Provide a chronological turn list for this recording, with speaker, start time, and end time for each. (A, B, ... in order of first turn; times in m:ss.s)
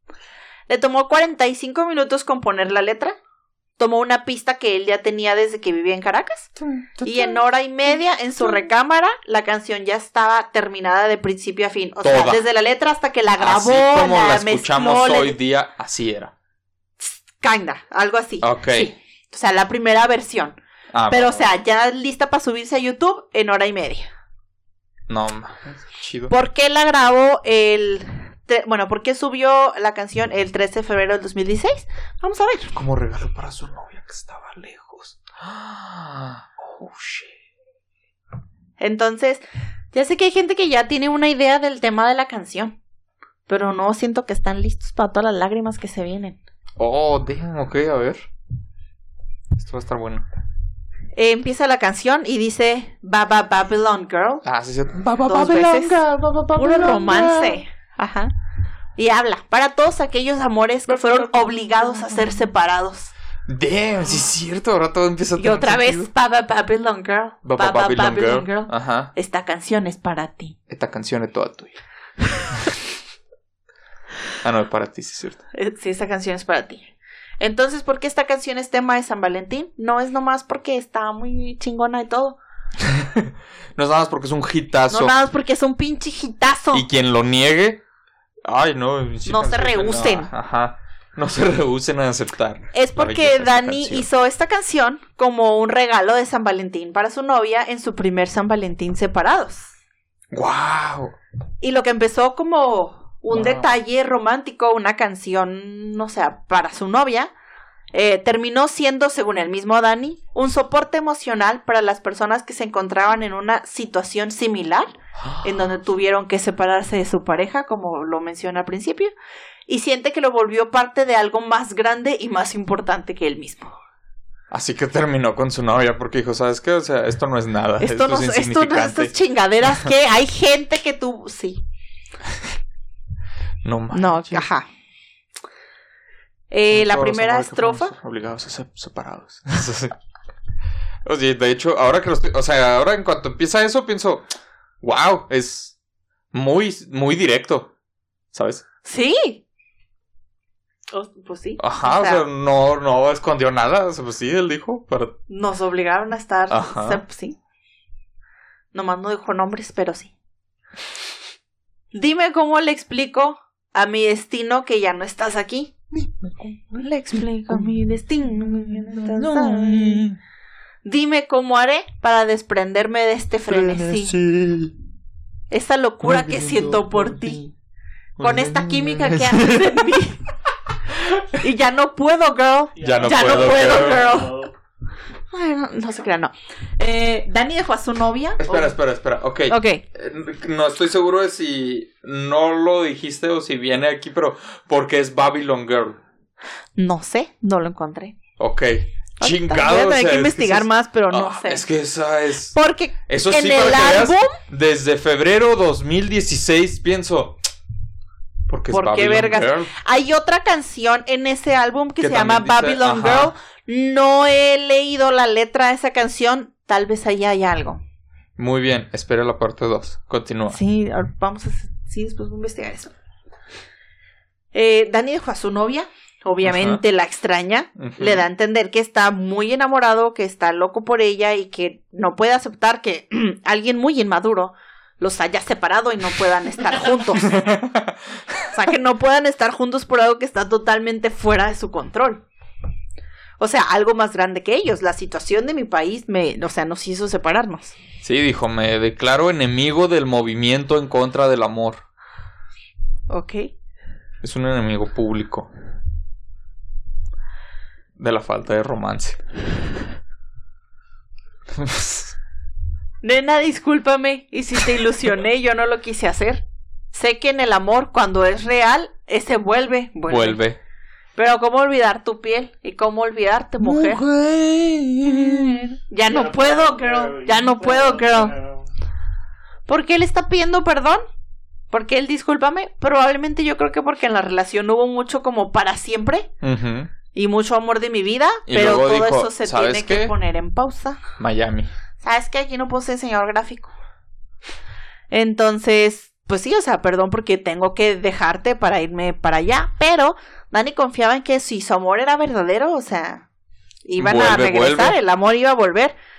0:00.7-0:03.2 A
0:03.8-0:15.4 A
0:06.6-0:07.4 B
0:12.0-0:12.4 B
0:13.4-0:16.3 B
0:17.0-0:20.6 A
0:18.4-0:18.9 B
0:20.9-0:21.5 B
0:21.1-0:24.1 A
0:25.1-0:26.3 B
0:26.3-0:32.7 A
0:32.7-0:37.3 B
0:38.8-0:42.8 A
0:43.5-0:46.4 A
0:46.8-0:48.2 B
0:49.6-0:50.2 B
0:51.2-0:54.4 A
0:54.4-0:57.6 B
0:55.2-0:56.0 A
0:56.5-0:58.3 A
0:59.0-1:03.1 A
1:00.9-1:01.4 B
1:03.5-1:06.1 B
1:05.4-1:10.6 A
1:07.4-1:09.1 B
1:10.7-1:11.8 B
1:14.4-1:15.4 B
1:15.5-1:16.9 A
1:17.4-1:22.4 A
1:22.8-1:25.1 B
1:24.9-1:26.8 A
1:26.7-1:27.8 B
1:28.4-1:34.1 B
1:29.2-1:30.3 A
1:32.7-1:39.7 A
1:40.3-1:41.2 B
1:41.6-1:47.3 A
1:43.3-1:43.7 B
1:47.9-1:59.1 A
1:55.2-1:55.8 B
1:59.7-2:03.8 A
2:04.5-2:09.1 B
2:07.8-2:11.6 A
2:13.6-2:14.4 B
2:13.9-2:14.6 A
2:16.5-2:17.9 A
2:16.7-2:19.9 B
2:21.0-2:24.3 B
2:24.8-2:25.7 B
2:26.3-2:27.7 B
2:28.3-2:28.6 B
2:28.8-2:29.4 A
2:30.9-2:32.2 A
2:31.6-2:35.2 B
2:35.3-2:37.4 A
2:36.5-2:37.0 B
2:38.7-2:40.1 A
2:41.9-2:45.8 A
2:46.0-2:47.8 B
2:46.7-2:50.1 A
2:48.3-2:50.2 B
2:50.8-2:54.1 A
2:53.5-2:54.7 B
2:55.5-2:57.4 A
2:56.0-2:57.5 B
2:58.2-3:00.0 B
2:58.2-3:00.2 A
3:01.3-3:04.4 A
3:02.8-3:04.5 C
3:02.8-3:04.2 B
3:05.3-3:08.8 A
3:08.4-3:16.0 B
3:09.5-3:09.8 A
3:16.8-3:18.2 A
3:18.4-3:22.6 B
3:19.2-3:21.6 A
3:22.5-3:24.4 A
3:23.1-3:27.4 B
3:28.5-3:29.7 B
3:28.7-3:37.8 A
3:32.0-3:33.3 B
3:38.4-3:40.6 B
3:40.5-3:42.9 A
3:44.5-3:57.5 A
3:46.4-3:46.8 B
3:47.8-3:48.2 B
3:57.2-3:58.4 B
3:58.5-4:02.2 A
4:03.4-4:07.8 A
4:08.0-4:11.8 B
4:13.1-4:13.5 A
4:14.2-4:15.5 B
4:18.0-4:19.2 B
4:21.5-4:22.1 B
4:23.0-4:30.4 A
4:30.1-4:30.6 B
4:31.2-4:34.0 A
4:33.6-4:35.8 B
4:35.1-4:38.3 A
4:36.0-4:38.7 C
4:39.7-4:41.0 A
4:41.7-4:46.3 A
4:46.4-4:46.9 B
4:47.1-4:51.0 A
4:48.5-4:50.1 B
4:51.2-4:51.7 B
4:52.0-4:53.7 A
4:55.1-5:03.2 A
5:03.8-5:05.9 A
5:04.0-5:05.0 B